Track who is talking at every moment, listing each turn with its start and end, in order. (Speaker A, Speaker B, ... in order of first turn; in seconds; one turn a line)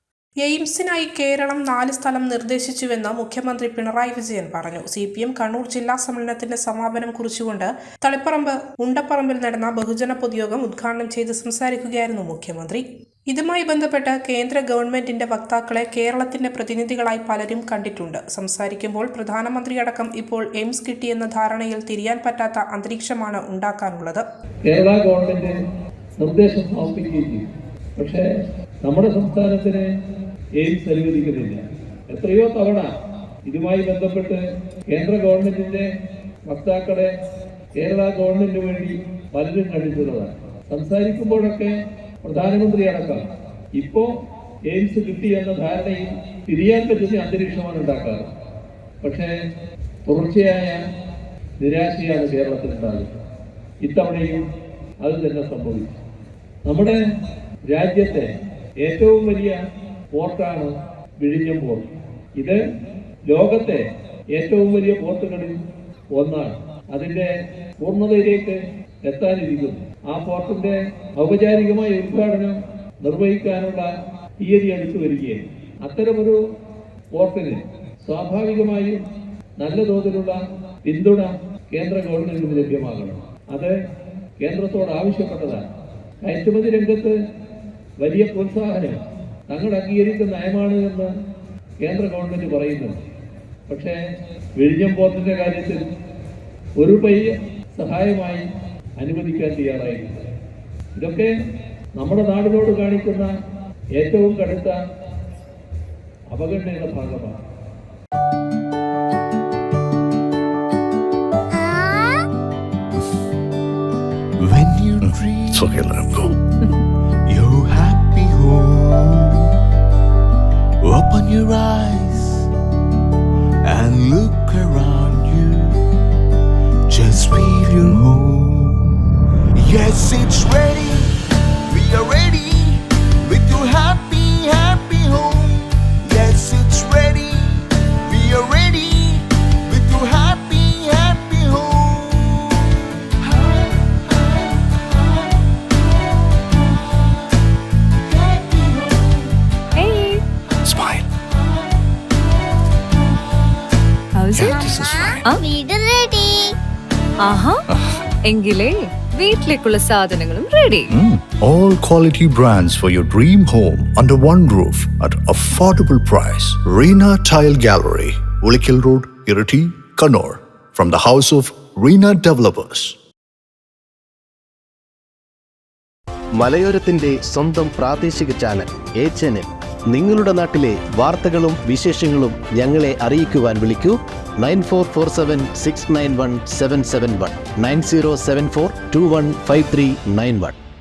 Speaker A: 0.4-24.2
Speaker B: 24.7-25.5
Speaker B: 26.2-27.4
Speaker B: 28.0-28.2
Speaker B: 28.8-29.8
Speaker B: 30.6-32.9
Speaker B: 33.5-34.4
Speaker B: 34.9-35.8
Speaker B: 36.5-37.1
Speaker B: 37.8-41.7
Speaker B: 42.2-43.2
Speaker B: 43.8-44.1
Speaker B: 44.7-48.3
Speaker B: 49.0-49.3
Speaker B: 50.0-50.8
Speaker B: 51.6-53.1
Speaker B: 53.8-54.4
Speaker B: 55.0-56.0
Speaker B: 56.6-57.0
Speaker B: 57.7-58.3
Speaker B: 58.8-59.6
Speaker B: 60.1-61.8
Speaker B: 63.3-63.8
Speaker B: 64.3-65.5
Speaker B: 66.1-67.3
Speaker B: 67.8-72.5
Speaker B: 73.0-73.9
Speaker B: 74.4-76.4
Speaker B: 77.2-79.0
Speaker B: 79.6-83.7
Speaker B: 84.4-85.6
Speaker B: 86.2-87.1
Speaker B: 88.0-91.1
Speaker B: 91.8-93.0
Speaker B: 93.7-93.9
Speaker B: 94.6-95.8
Speaker B: 96.8-98.4
Speaker B: 99.0-100.3
Speaker B: 101.0-101.3
Speaker B: 102.0-103.3
Speaker B: 104.0-104.8
Speaker B: 106.3-107.3
Speaker C: 111.5-112.2
Speaker D: 114.4-115.9
Speaker E: 115.0-116.3
Speaker D: 117.3-119.5
Speaker D: 120.8-122.5
Speaker D: 123.6-125.8
Speaker D: 126.9-128.9
Speaker D: 129.5-145.8
Speaker D: 146.5-147.2
Speaker D: 147.9-149.3
Speaker F: 149.8-150.2
Speaker E: 150.6-151.1
Speaker F: 154.1-155.4
Speaker E: 154.3-155.3
Speaker C: 154.4-156.5
Speaker F: 157.2-157.6
Speaker F: 158.2-160.9
Speaker E: 160.9-173.0
Speaker G: 176.3-190.6